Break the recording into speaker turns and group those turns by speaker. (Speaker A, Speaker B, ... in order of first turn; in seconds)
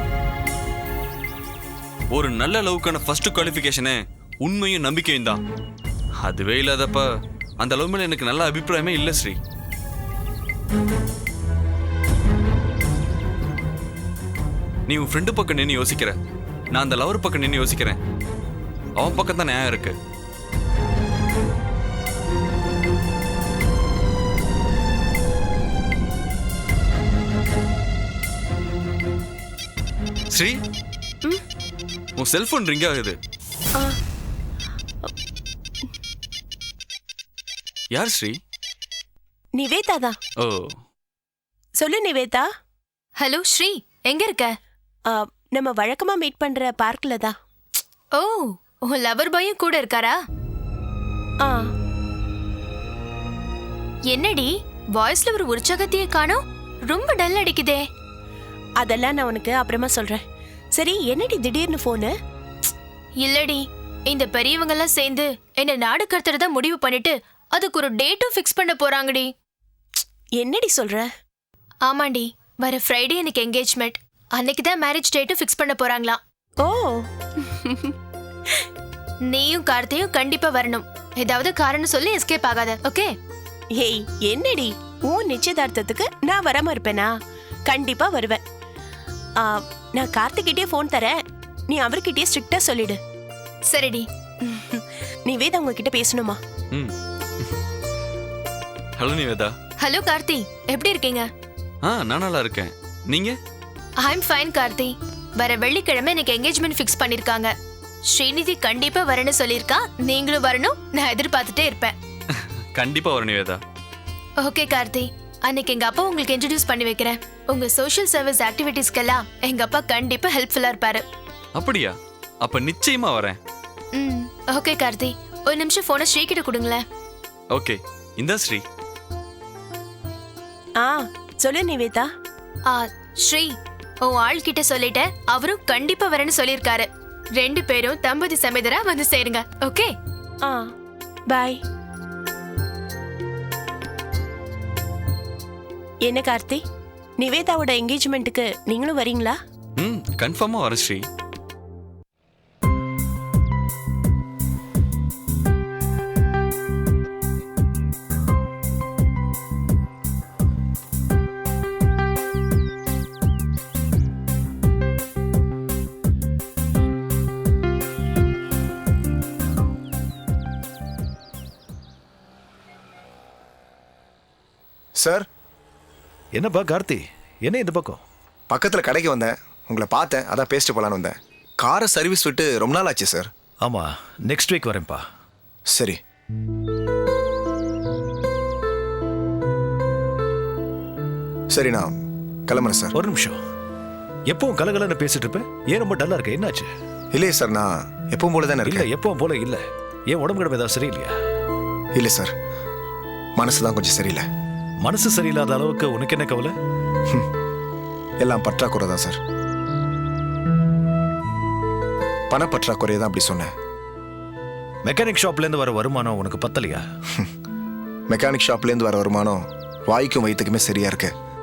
Speaker A: 2.1-5.4, 6.2-7.1, 7.6-9.4, 14.9-16.2, 16.7-18.0, 19.0-20.0, 30.3-30.6, 32.2-33.2, 37.9-38.4, 40.4-40.8, 99.0-99.5, 101.8-103.4, 112.8-113.6, 121.6-123.4, 127.5-128.6, 149.8-151.1
Speaker B: 39.5-40.2, 41.8-42.5, 45.1-47.4, 58.8-60.2, 60.8-62.1, 70.3-71.1, 76.6-77.0, 77.6-77.9, 83.7-87.1, 87.7-88.4, 89.4-91.2, 91.7-93.0, 94.5-96.4, 130.8-132.1, 141.3-141.6, 146.0-146.6, 147.2-149.4
Speaker C: 43.2-44.5, 48.1-50.2, 54.1-57.8, 63.2-69.3, 71.9-76.2, 79.3-83.1, 93.7-94.1, 99.8-101.3, 104.0-107.5, 108.1-112.0, 114.4-121.0, 123.9-126.8, 132.7-139.9
Speaker D: 175.0-175.2, 178.5-183.3, 185.7-186.0, 191.5-191.9, 192.5-192.9, 197.1-198.9, 201.9-202.3, 203.4-204.2, 208.2-209.2, 212.3-213.5, 218.1-221.1
Speaker E: 176.3-178.0, 183.6-185.0, 192.9-193.4, 194.3-196.7, 198.7-201.1, 204.8-206.5, 214.8-216.8